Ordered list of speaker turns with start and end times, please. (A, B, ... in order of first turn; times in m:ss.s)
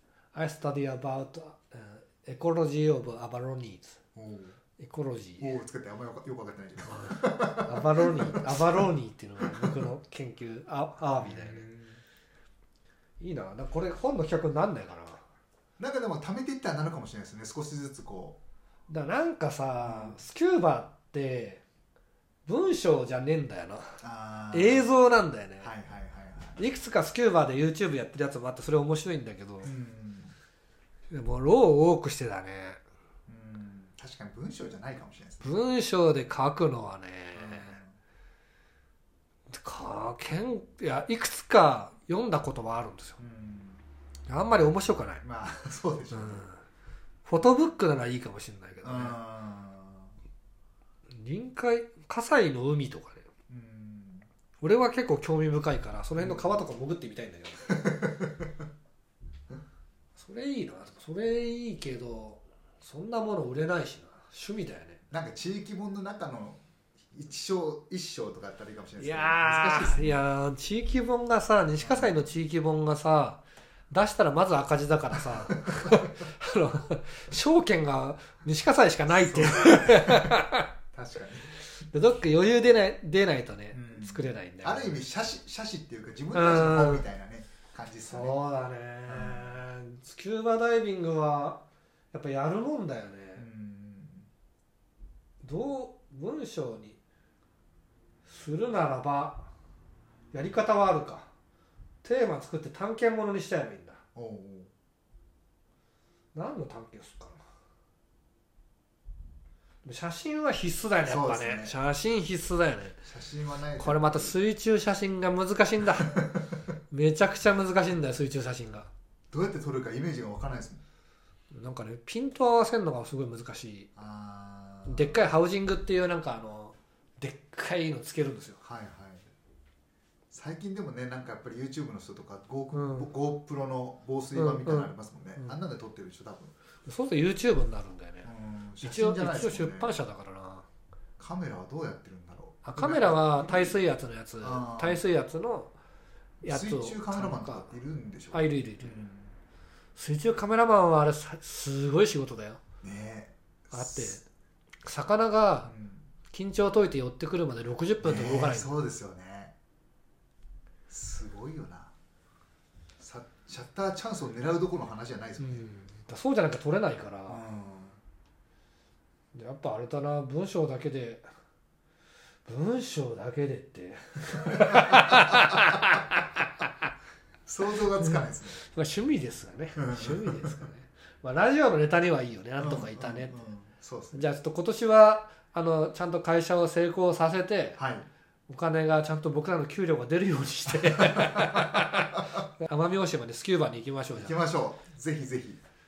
0:00.3-0:04.0 A
0:04.1-0:04.6 B
0:04.8-0:05.5 A
0:05.4-0:09.8 B
0:07.0-0:11.7 A
0:11.2-0:12.0 B
0:13.2-0:15.2 A
0:15.8-0:18.4 B
0:18.9-0:21.6 A
0:19.8-0:20.2 B
0:22.4-0:24.0 A
0:24.0-0:24.9 B
0:24.5-0:25.7 A
0:25.6-0:26.6 B
0:26.6-0:29.7 A
0:29.6-0:30.3 B
0:31.1-0:32.8 A
0:33.3-0:35.6 B
0:35.4-0:37.8 A
0:37.3-0:37.9 B
0:39.5-0:43.2 A
0:43.2-0:43.8 B
0:44.3-0:45.2 A
0:45.2-0:46.4 B
0:46.1-0:46.6 A
0:47.2-0:49.2 A
0:48.8-0:50.1 B
0:51.2-0:53.2 A
0:53.5-0:54.3 B
0:54.6-0:57.7 A
0:56.2-0:56.6 B
0:57.6-0:58.6 B
1:00.2-1:05.0 A
1:05.1-1:10.2 B
1:09.0-1:20.7 A
1:11.8-1:12.2 B
1:15.3-1:16.1 B
1:19.1-1:21.5 B
1:21.8-1:25.0 A
1:23.7-1:28.3 B
1:26.3-1:27.0 A
1:28.1-1:33.4 A
1:29.1-1:29.6 B
1:33.4-1:34.3 B
1:35.4-1:37.0 A
1:38.2-1:39.5 A
1:40.3-1:41.3 A
1:42.0-1:44.0 A
1:44.1-1:44.7 B
1:46.3-1:47.4 A
1:49.8-1:53.0 A
1:51.0-1:51.7 B
1:53.0-1:54.4 B
1:53.8-1:56.1 A
1:56.0-1:56.5 B
1:56.9-1:58.9 A
1:59.3-2:00.8 B
2:01.5-2:03.9 A
2:04.0-2:05.2 B
2:04.8-2:08.6 A
2:08.6-2:09.3 B
2:10.3-2:16.5 B
2:12.7-2:13.1 A
2:14.3-2:15.5 A
2:16.8-2:18.3 A
2:18.2-2:20.0 B
2:18.8-2:20.6 A
2:21.2-2:23.8 B
2:22.6-2:25.7 A
2:24.4-2:25.0 B
2:26.4-2:27.7 A
2:26.4-2:29.3 B
2:28.3-2:28.9 A
2:30.0-2:32.6 A
2:32.8-2:34.2 B
2:33.7-2:34.2 A
2:34.8-2:35.7 A
2:35.6-2:36.1 B
2:36.3-2:38.8 A
2:38.0-2:39.5 B
2:40.9-2:41.9 B
2:43.0-2:45.6 B
2:45.4-2:47.4 A
2:47.3-2:48.0 B
2:49.3-2:51.2 A
2:52.4-2:56.9 A
2:54.3-2:56.0 B
2:57.4-2:58.6 B
2:58.0-3:03.4 A
2:59.8-3:00.7 B
3:02.6-3:04.2 B
3:04.1-3:07.8 A
3:07.8-3:08.1 B
3:08.5-3:14.4 A
3:10.7-3:12.4 B
3:14.1-3:15.6 B